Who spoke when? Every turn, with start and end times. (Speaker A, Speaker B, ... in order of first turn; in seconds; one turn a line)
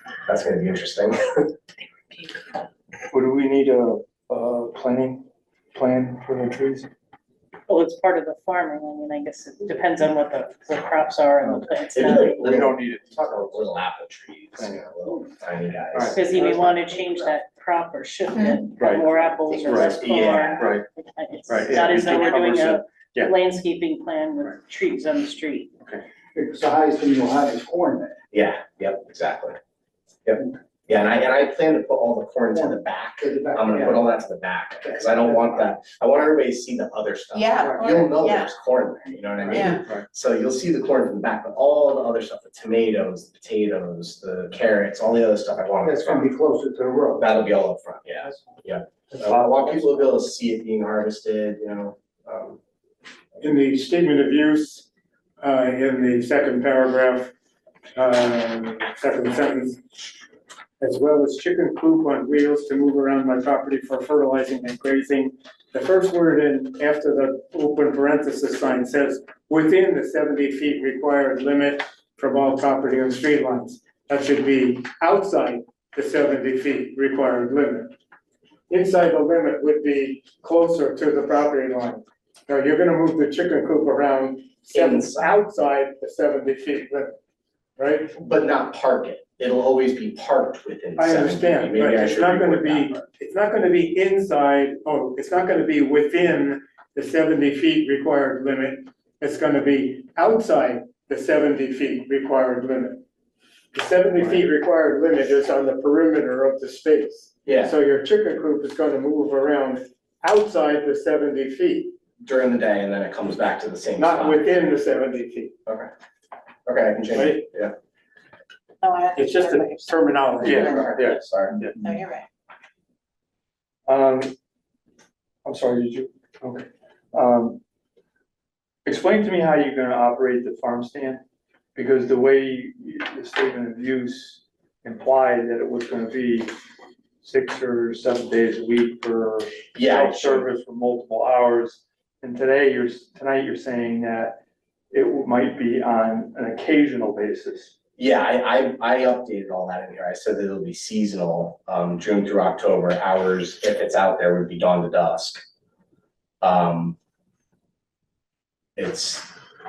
Speaker A: 0.3-1.2
Speaker B: 3.1-6.9
Speaker C: 7.7-12.6
Speaker B: 11.4-13.3
Speaker A: 11.9-16.8
Speaker C: 16.1-25.7
Speaker D: 18.3-18.7
Speaker B: 18.8-20.0
Speaker D: 19.5-19.9
Speaker A: 19.8-20.8
Speaker B: 20.6-20.9
Speaker B: 21.5-23.3
Speaker E: 26.4-28.2
Speaker A: 28.3-29.6
Speaker A: 30.2-46.3
Speaker E: 32.5-34.1
Speaker E: 34.8-35.7
Speaker D: 37.3-38.5
Speaker B: 39.5-40.1
Speaker D: 39.5-39.8
Speaker E: 45.8-47.3
Speaker A: 47.2-52.6
Speaker B: 49.2-50.1
Speaker F: 53.4-54.9
Speaker F: 55.4-57.3
Speaker F: 58.0-59.8
Speaker F: 60.8-77.9
Speaker F: 78.7-87.1
Speaker A: 84.7-85.4
Speaker F: 87.8-88.1
Speaker A: 88.2-93.0
Speaker F: 91.0-103.0
Speaker F: 103.7-111.9
Speaker A: 107.5-107.7
Speaker A: 112.2-114.5
Speaker F: 114.0-115.6
Speaker A: 116.7-117.7
Speaker F: 117.1-117.5
Speaker D: 118.8-121.0
Speaker F: 119.2-120.7
Speaker A: 120.4-121.6
Speaker B: 120.4-121.8
Speaker D: 121.8-122.3
Speaker B: 123.9-124.3
Speaker B: 125.5-127.6
Speaker B: 128.8-131.2
Speaker B: 131.8-136.5
Speaker B: 137.2-144.4
Speaker A: 139.7-140.4
Speaker B: 144.9-147.7
Speaker A: 148.0-155.4
Speaker A: 156.4-157.0
Speaker A: 158.8-159.3